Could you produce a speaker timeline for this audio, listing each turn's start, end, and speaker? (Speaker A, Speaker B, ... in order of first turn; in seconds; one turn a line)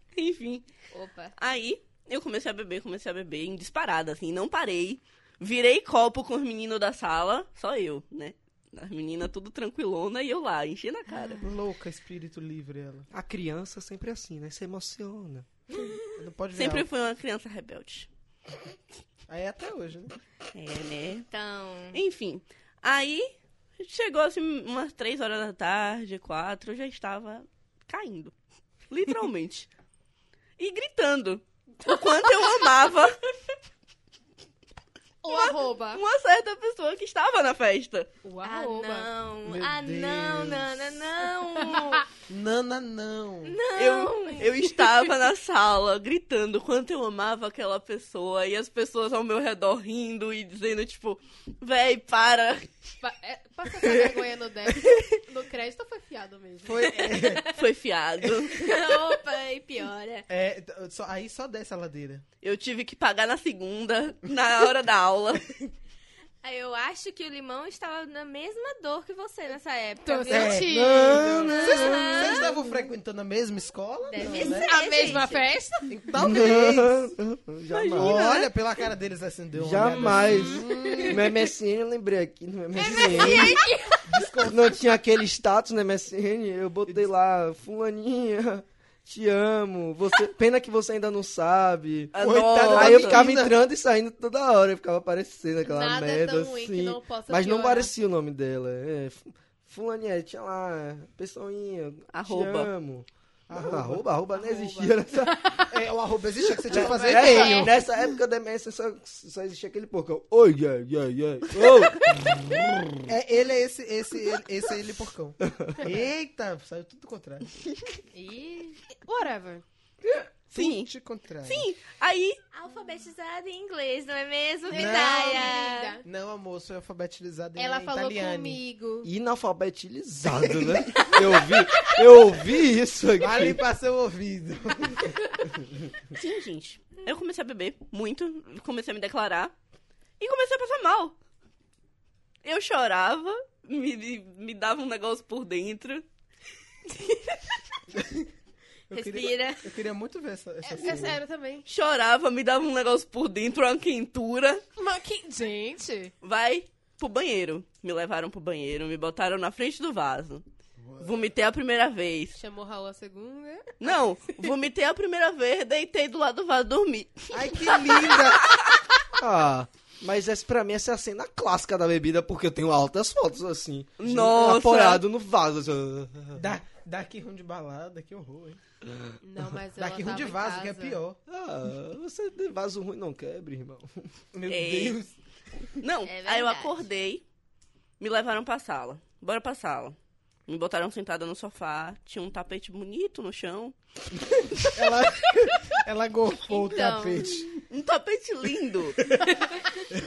Speaker A: 0.1-0.7
Speaker B: 0.9-1.4
Speaker A: 1.4-11.5
Speaker C: 11.4-13.1
Speaker D: 13.1-15.5
Speaker C: 16.2-16.9
Speaker A: 16.5-18.1
Speaker C: 19.3-20.1
Speaker A: 20.5-21.3
Speaker B: 21.3-22.0
Speaker A: 21.9-28.3
Speaker A: 28.9-29.7
Speaker A: 30.6-33.2
Speaker E: 35.2-36.0
Speaker A: 35.3-38.1
Speaker E: 38.2-39.1
Speaker B: 38.4-42.1
Speaker C: 39.5-41.0
Speaker C: 42.3-43.6
Speaker B: 43.4-44.8
Speaker A: 43.8-52.8
Speaker E: 53.0-57.1
Speaker C: 56.6-57.6
Speaker B: 57.0-57.6
Speaker A: 57.5-58.6
Speaker B: 58.4-60.3
Speaker C: 60.3-62.2
Speaker A: 62.4-65.5
Speaker B: 66.4-70.9
Speaker E: 70.0-71.8
Speaker C: 70.3-75.1
Speaker D: 70.7-72.5
Speaker B: 71.5-72.7
Speaker B: 74.1-75.6
Speaker E: 74.2-76.1
Speaker C: 75.9-77.1
Speaker D: 76.2-78.2
Speaker A: 77.7-78.5
Speaker C: 77.9-81.2
Speaker D: 79.5-83.6
Speaker E: 80.6-81.1
Speaker E: 82.8-84.2
Speaker B: 83.0-83.6
Speaker A: 83.2-83.5
Speaker C: 84.1-84.8
Speaker D: 84.5-105.6
Speaker A: 92.1-93.3
Speaker C: 92.2-93.6
Speaker E: 95.6-97.9
Speaker A: 102.1-102.7
Speaker C: 103.5-104.1
Speaker E: 104.3-105.7
Speaker C: 105.7-107.8
Speaker D: 106.6-113.1
Speaker E: 107.0-107.7
Speaker C: 113.1-117.5
Speaker D: 115.4-115.8
Speaker B: 118.1-118.8
Speaker E: 118.9-119.6
Speaker C: 120.5-121.7
Speaker A: 120.5-120.9
Speaker A: 121.5-122.4
Speaker B: 122.5-126.0
Speaker E: 124.7-126.0
Speaker C: 124.7-128.6
Speaker E: 127.6-129.1
Speaker D: 129.0-133.6
Speaker C: 130.4-130.9
Speaker C: 133.2-135.4
Speaker A: 136.1-139.5
Speaker A: 140.2-141.2
Speaker A: 142.4-146.1
Speaker C: 147.9-148.3
Speaker C: 148.9-151.2
Speaker B: 148.9-149.7
Speaker E: 150.7-151.7
Speaker A: 151.7-154.6
Speaker E: 154.8-156.1
Speaker A: 156.2-160.4
Speaker C: 160.8-161.3
Speaker A: 161.0-162.4
Speaker E: 162.3-164.5
Speaker A: 163.8-168.8
Speaker C: 167.3-168.4
Speaker D: 169.2-176.6
Speaker A: 174.0-175.0
Speaker C: 176.4-178.6
Speaker D: 178.9-179.1
Speaker E: 179.2-181.0
Speaker C: 179.8-181.2
Speaker D: 181.3-184.1
Speaker C: 184.3-185.2
Speaker A: 184.5-185.0
Speaker A: 185.8-187.2
Speaker B: 186.1-186.9
Speaker A: 188.0-190.0
Speaker A: 190.5-193.8
Speaker A: 194.4-194.8
Speaker C: 194.7-197.5
Speaker B: 196.5-197.4
Speaker A: 197.6-199.2
Speaker C: 199.0-199.4